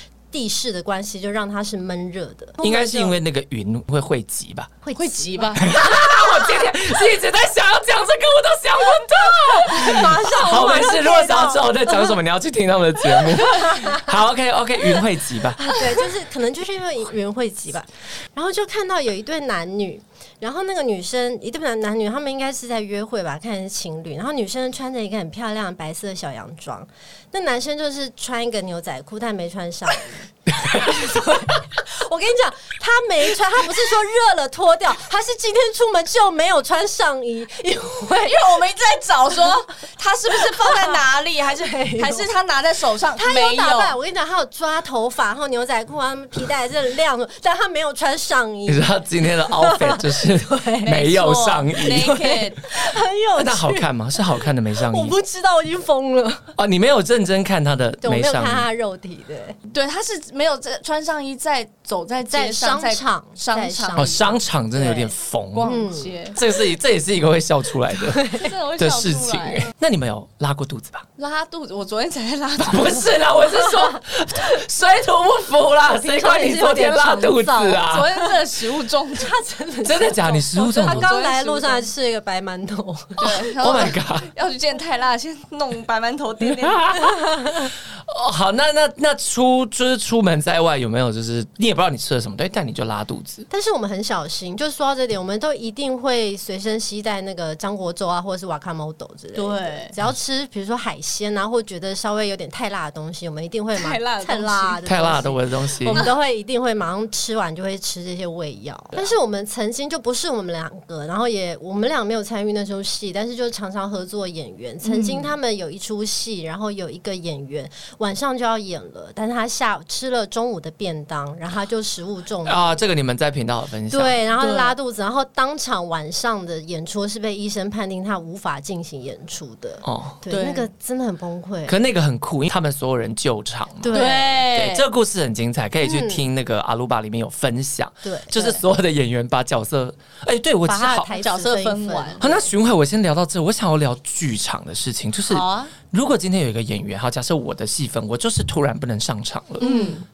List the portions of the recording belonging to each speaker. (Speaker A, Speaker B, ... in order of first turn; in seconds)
Speaker A: 0.3-3.2, 4.8-6.7, 9.6-12.2, 13.0-14.1, 15.7-38.5, 40.3-42.3, 43.1-51.0, 51.8-56.5, 58.0-59.6, 62.3-65.1, 65.7-66.1, 68.0-68.5, 73.5-74.0, 75.9-78.3, 79.1-84.0, 87.0-87.7, 93.5-122.9, 123.9-131.8, 133.8-134.4, 135.8-136.3, 138.0-138.3, 140.6-142.5, 149.6-150.0
Speaker B: 2.6-4.8, 5.6-15.8, 30.6-31.0, 48.7-52.3, 53.4-55.2, 56.6-58.7, 64.0-65.7, 66.3-71.1, 72.6-78.2, 79.8-81.1, 83.6-84.3, 86.6-93.5, 104.8-106.1, 122.5-124.2, 129.8-130.2, 131.7-134.0, 134.5-141.1, 142.2-149.8
Speaker C: 5.0-5.7, 38.2-44.0, 50.8-52.6, 59.7-64.2, 64.8-66.4, 68.3-69.7, 71.2-73.1, 77.9-79.4, 80.6-81.9, 83.2-86.9, 99.3-100.0, 103.8-104.8, 114.8-115.3, 124.4-124.7, 130.3-130.7, 133.9-134.8, 138.3-138.6, 141.1-142.3, 145.3-145.7, 149.6-150.0